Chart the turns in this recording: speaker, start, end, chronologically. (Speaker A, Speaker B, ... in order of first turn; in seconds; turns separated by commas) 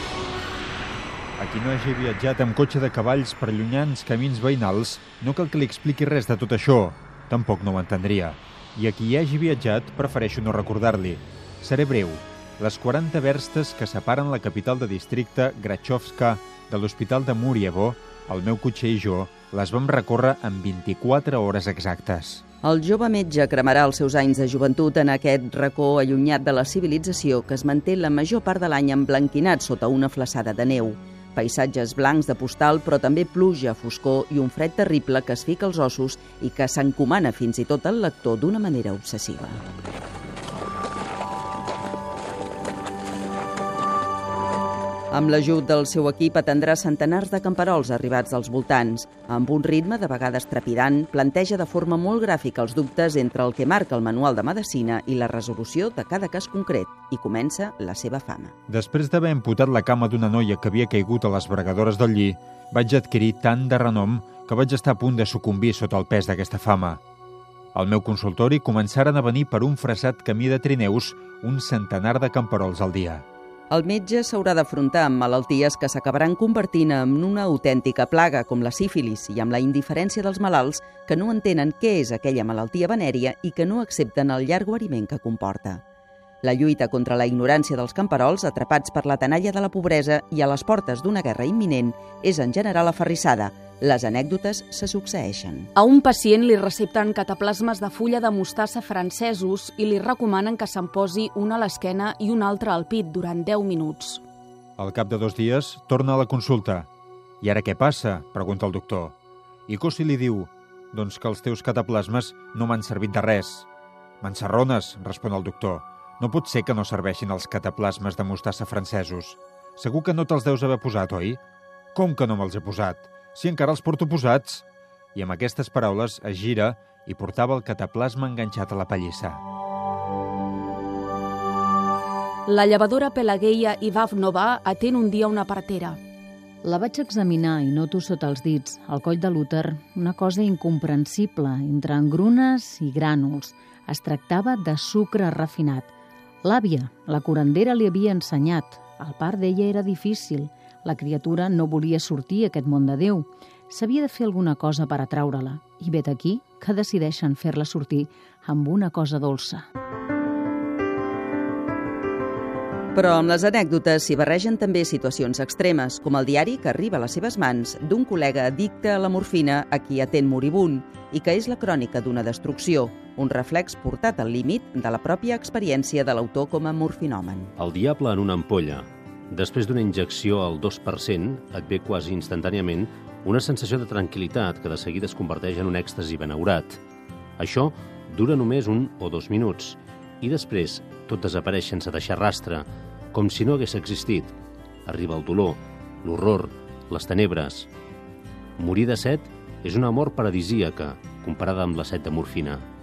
Speaker A: 1.4-22.4, Speaker B: 22.6-39.6, Speaker B: 45.1-58.5, Speaker A: 58.7-67.0, Speaker A: 67.7-73.2, Speaker B: 73.7-85.8, Speaker B: 86.4-95.7, Speaker C: 95.8-104.2, Speaker A: 104.8-106.9, Speaker A: 107.4-109.2, Speaker A: 109.7-113.7, Speaker A: 114.2-121.4, Speaker A: 122.0-124.6, Speaker A: 125.2-129.4, Speaker C: 132.5-136.0, Speaker D: 136.6-145.9, Speaker D: 146.4-159.7, Speaker B: 162.9-177.5, Speaker E: 177.6-186.8, Speaker E: 187.4-194.3, Speaker E: 194.9-197.7, Speaker E: 198.6-202.6